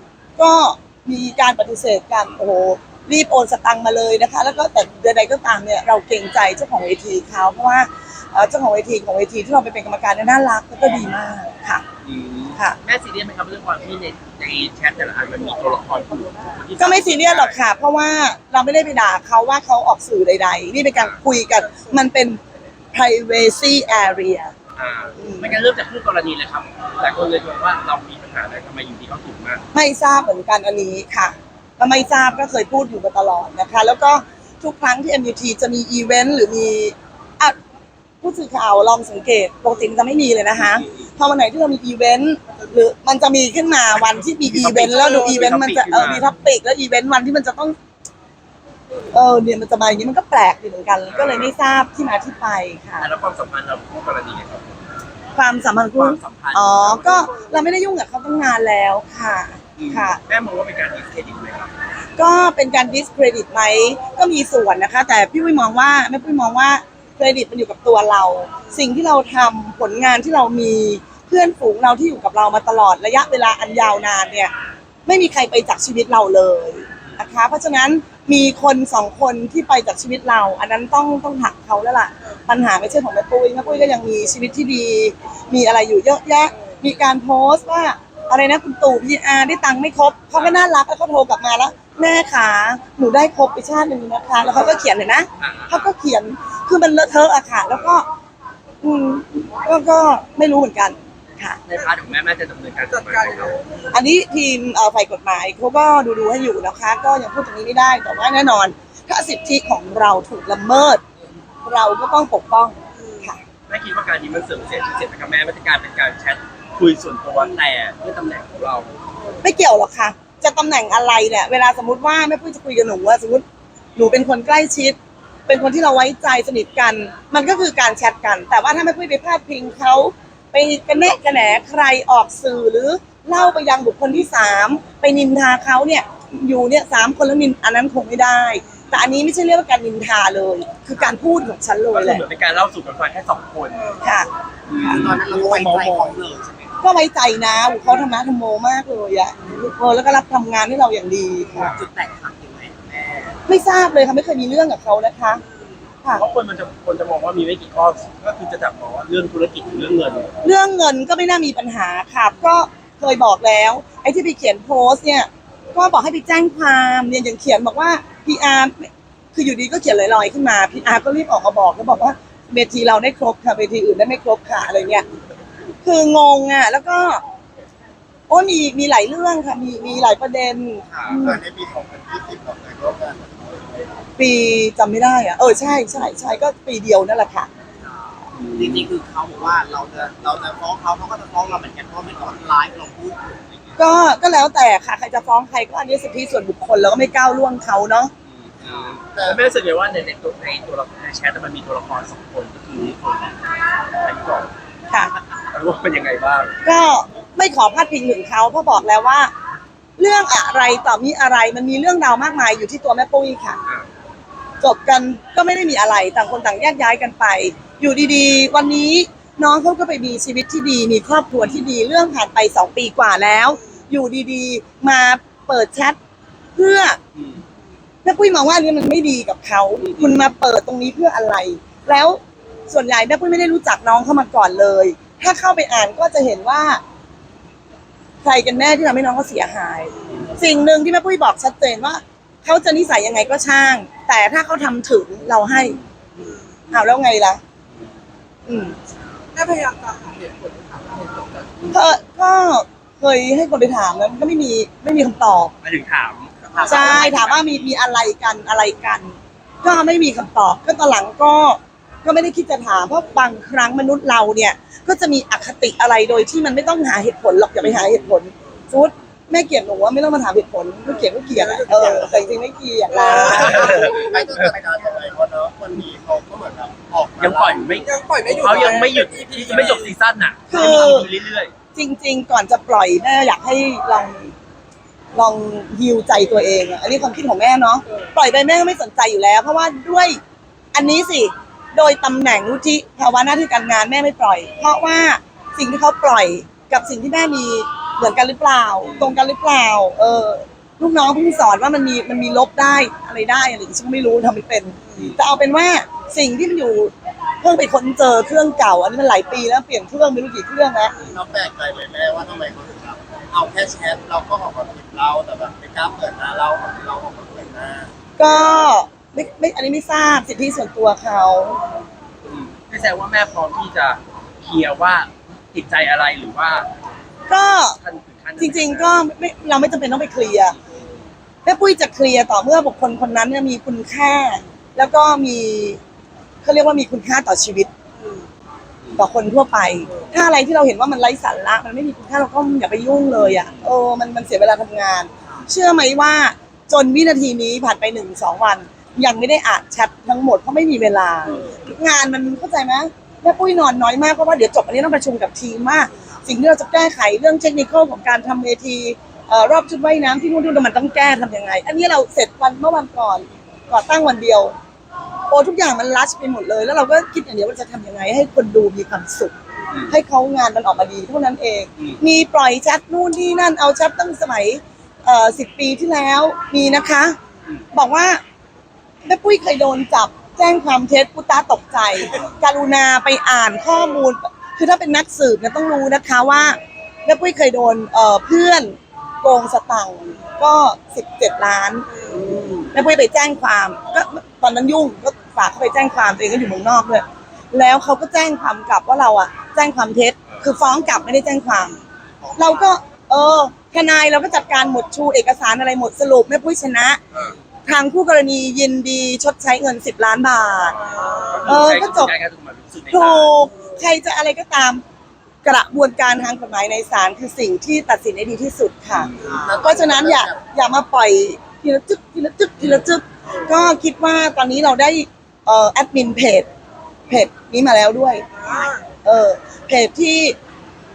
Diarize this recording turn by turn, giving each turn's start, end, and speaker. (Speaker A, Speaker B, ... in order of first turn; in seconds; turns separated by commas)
Speaker A: 0.4-11.8, Speaker B: 12.0-17.6, Speaker A: 16.8-22.4, Speaker A: 22.9-24.5, Speaker B: 24.8-29.6, Speaker A: 25.2-25.5, Speaker A: 29.7-37.6, Speaker A: 38.2-47.8, Speaker B: 44.2-46.3, Speaker A: 49.1-53.1, Speaker B: 51.1-51.5, Speaker B: 53.0-54.8, Speaker A: 55.4-60.2, Speaker B: 56.0-57.3, Speaker B: 59.8-61.7, Speaker A: 62.2-74.5, Speaker A: 75.1-98.1, Speaker B: 77.0-77.3, Speaker B: 95.4-95.9, Speaker A: 98.8-101.6, Speaker B: 101.7-103.6, Speaker C: 102.9-103.5, Speaker A: 103.9-111.0, Speaker A: 111.6-113.4, Speaker C: 113.0-113.3, Speaker B: 113.7-118.9, Speaker A: 119.4-142.2, Speaker B: 141.9-144.0, Speaker A: 144.0-144.3, Speaker B: 144.7-145.2, Speaker D: 144.8-146.8, Speaker A: 144.8-146.2, Speaker A: 146.8-151.8, Speaker D: 151.5-153.4, Speaker A: 153.5-155.4, Speaker B: 156.1-160.3, Speaker A: 160.4-175.1, Speaker D: 162.3-162.6, Speaker A: 175.8-177.2, Speaker A: 178.3-181.4, Speaker D: 180.9-181.2, Speaker E: 181.2-183.9, Speaker A: 184.2-187.5, Speaker D: 187.8-193.8, Speaker B: 188.3-188.9, Speaker A: 193.8-198.1, Speaker B: 198.3-203.4, Speaker D: 198.6-198.9, Speaker E: 199.1-199.4, Speaker B: 203.9-204.5, Speaker B: 205.5-206.6, Speaker A: 206.6-209.3, Speaker A: 210.0-213.6, Speaker A: 214.6-226.0, Speaker B: 221.4-221.7, Speaker A: 226.6-227.0, Speaker B: 227.2-227.4, Speaker A: 228.0-236.8, Speaker B: 229.8-230.2, Speaker A: 238.2-245.8, Speaker A: 246.7-247.4, Speaker A: 248.5-248.8, Speaker C: 249.3-251.5, Speaker A: 251.7-255.5, Speaker B: 255.6-257.4, Speaker D: 256.6-257.1, Speaker A: 256.7-273.8, Speaker B: 267.6-268.1, Speaker C: 271.4-272.2, Speaker C: 273.0-273.3, Speaker E: 273.1-277.8, Speaker B: 273.4-274.5, Speaker B: 277.2-281.5, Speaker C: 277.8-279.9, Speaker A: 280.5-281.1, Speaker A: 281.8-284.3, Speaker A: 285.1-290.2, Speaker A: 290.7-311.0, Speaker B: 298.8-299.2, Speaker E: 311.0-317.9, Speaker A: 318.2-321.6, Speaker B: 322.2-326.7, Speaker A: 327.3-327.8, Speaker B: 327.8-329.0, Speaker A: 328.4-330.6, Speaker B: 330.5-330.9, Speaker A: 331.4-335.8, Speaker A: 336.4-337.7, Speaker A: 339.0-364.6, Speaker B: 343.2-343.7, Speaker A: 365.3-369.4, Speaker B: 369.7-370.0, Speaker A: 369.9-377.2, Speaker A: 377.7-378.2, Speaker A: 379.1-391.9, Speaker D: 392.1-392.7, Speaker A: 392.7-401.8, Speaker B: 400.3-400.5, Speaker D: 402.2-402.7, Speaker A: 402.4-407.0, Speaker A: 407.7-410.8, Speaker C: 411.0-411.4, Speaker B: 411.2-413.4, Speaker A: 411.5-412.1, Speaker A: 412.9-414.8, Speaker A: 415.4-426.5, Speaker B: 419.0-419.3, Speaker D: 419.2-419.7, Speaker E: 419.3-420.4, Speaker A: 427.1-428.3, Speaker C: 428.5-428.8, Speaker A: 429.0-430.4